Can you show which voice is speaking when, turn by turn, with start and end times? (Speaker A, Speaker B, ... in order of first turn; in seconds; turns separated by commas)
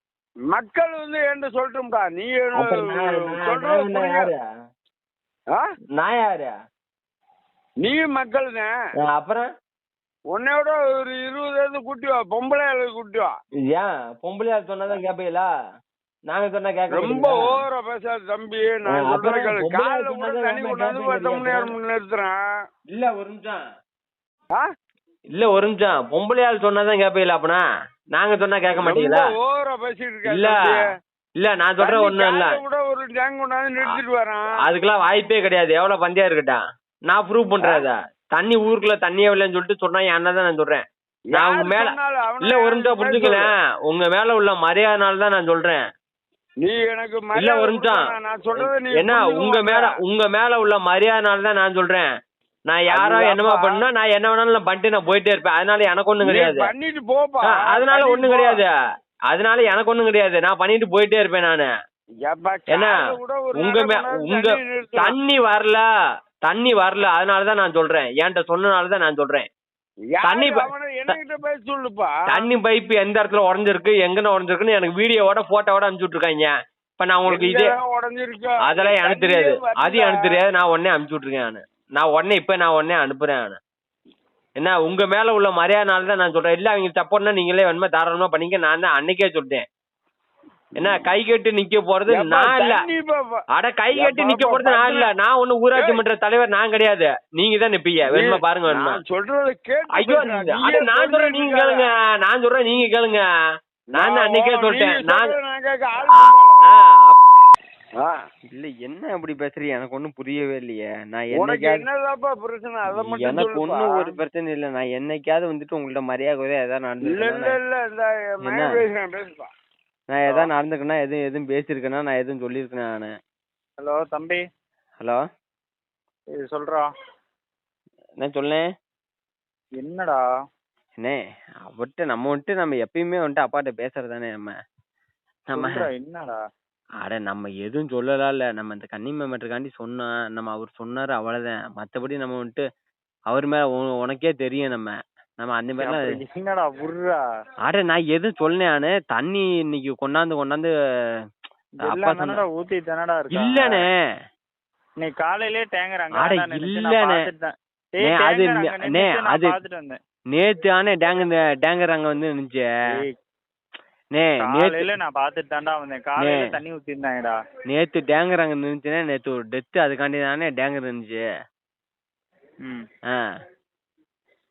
Speaker A: 0.5-4.3, Speaker B: 2.6-4.4, Speaker B: 6.0-6.5, Speaker A: 7.8-8.7, Speaker B: 9.0-9.5, Speaker A: 10.3-13.3, Speaker B: 13.7-15.5, Speaker B: 16.3-17.6, Speaker A: 16.9-22.4, Speaker B: 18.9-21.7, Speaker B: 22.9-23.6, Speaker B: 25.3-27.6, Speaker B: 28.1-29.3, Speaker A: 28.8-30.9, Speaker B: 30.3-30.6, Speaker B: 31.4-32.6, Speaker A: 31.8-34.5, Speaker B: 34.6-45.8, Speaker A: 41.3-43.5, Speaker A: 46.6-49.9, Speaker B: 47.3-52.1, Speaker B: 52.7-56.7, Speaker A: 52.9-53.8, Speaker A: 56.2-58.6, Speaker B: 57.5-58.7, Speaker B: 59.3-61.7, Speaker A: 62.2-65.2, Speaker B: 63.5-65.8, Speaker B: 66.5-69.5, Speaker A: 70.1-72.4, Speaker B: 70.2-71.2, Speaker B: 72.3-77.8, Speaker A: 77.2-80.3, Speaker B: 78.6-83.6, Speaker B: 84.6-89.6, Speaker B: 90.8-92.8, Speaker A: 90.8-91.1, Speaker A: 92.1-93.3, Speaker B: 93.5-99.0, Speaker A: 93.9-95.1, Speaker A: 95.8-96.0, Speaker A: 98.1-101.9, Speaker B: 99.9-103.2, Speaker A: 103.9-106.8, Speaker B: 104.0-105.3, Speaker B: 106.1-107.2, Speaker B: 108.5-111.8, Speaker A: 111.4-114.1, Speaker B: 112.9-117.6, Speaker A: 117.1-119.5, Speaker B: 120.1-123.1, Speaker C: 123.8-124.4, Speaker C: 126.3-126.9, Speaker B: 128.2-128.6, Speaker C: 129.8-130.2, Speaker B: 131.0-134.5, Speaker B: 135.5-135.8, Speaker C: 135.6-136.4, Speaker B: 137.0-142.6, Speaker B: 143.3-146.1, Speaker C: 145.8-147.2, Speaker B: 147.6-150.7, Speaker C: 151.8-153.8, Speaker B: 151.8-152.4, Speaker B: 153.3-153.9, Speaker C: 155.0-160.0, Speaker B: 156.1-157.2, Speaker B: 158.0-159.6, Speaker B: 160.3-162.6, Speaker B: 164.1-164.9, Speaker C: 164.4-167.4, Speaker B: 166.2-166.5, Speaker B: 167.7-171.2